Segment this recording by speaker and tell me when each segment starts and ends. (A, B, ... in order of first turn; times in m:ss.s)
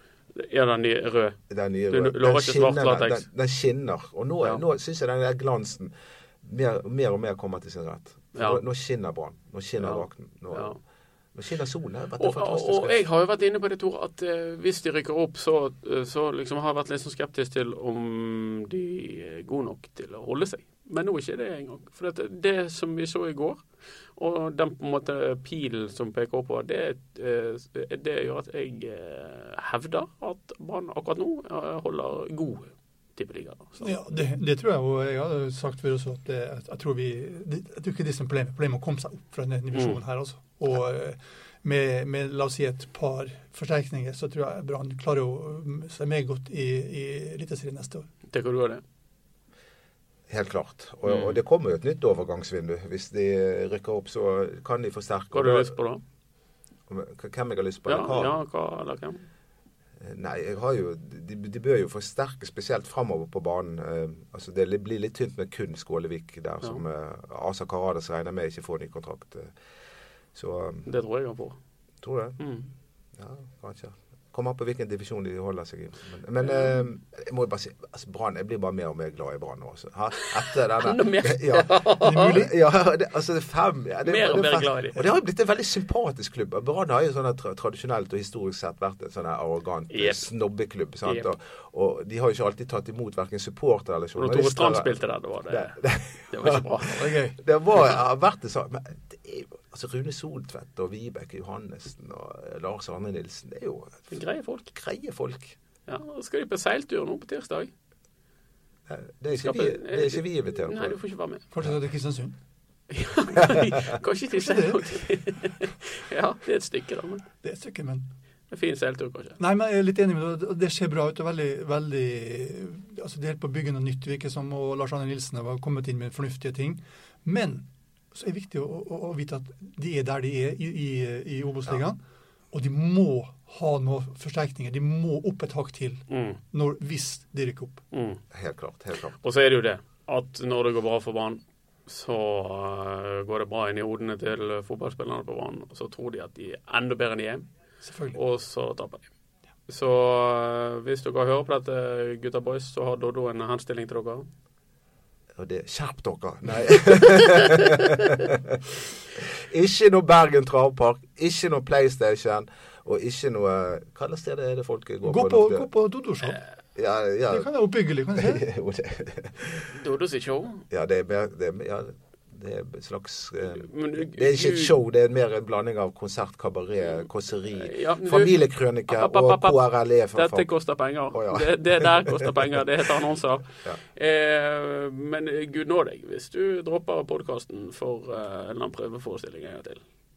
0:00.4-0:01.4 A
0:01.5-0:05.9 B
0:01.9-0:03.2 A
0:06.4-0:10.7 B
0:08.4-0:08.6 A
0:09.8-0:10.8 A
0:11.3-0:13.0 B
0:12.2-0:23.6 A
0:24.2-0:34.0 A
0:33.8-0:48.1 C
0:39.7-0:40.0 A
0:48.3-0:48.8 A
0:50.3-0:55.7 B
0:51.1-0:51.4 A
0:55.3-0:56.0 A
0:56.9-0:58.4 B
0:57.8-0:59.2 A
1:00.0-1:09.5 B
1:10.3-1:10.9 B
1:10.8-1:11.6 A
1:12.0-1:12.4 B
1:12.4-1:12.7 A
1:13.2-1:35.0 B
1:20.2-1:22.4 A
1:22.0-1:22.5 C
1:24.0-1:25.1 A
1:29.9-1:30.3 A
1:31.0-1:31.3 A
1:34.2-1:35.8 A
1:35.5-1:44.2 B
1:36.3-1:37.2 A
1:37.1-1:37.4 C
1:44.1-1:44.7 A
1:44.7-1:45.6 B
1:45.9-1:47.7 A
1:48.9-1:51.0 B
1:49.3-1:51.4 A
1:51.5-1:52.4 C
1:52.9-1:57.2 A
1:54.3-1:54.9 C
1:57.4-1:58.0 C
1:58.5-1:59.4 A
1:59.4-2:12.0 C
2:12.5-2:17.8 C
2:16.1-2:16.4 A
2:17.9-2:18.2 A
2:18.3-2:19.1 B
2:19.2-2:27.4 A
2:27.8-2:28.2 C
2:28.1-2:29.0 A
2:29.7-2:34.2 A
2:35.4-2:45.7 B
2:45.0-2:46.4 C
2:46.7-2:49.7 B
2:47.3-2:48.4 C
2:49.7-2:50.6 A
2:50.7-3:00.5 B
2:53.5-2:54.7 A
2:57.6-2:58.4 A
2:58.9-2:59.6 A
3:00.1-3:09.8 A
3:01.1-3:02.3 B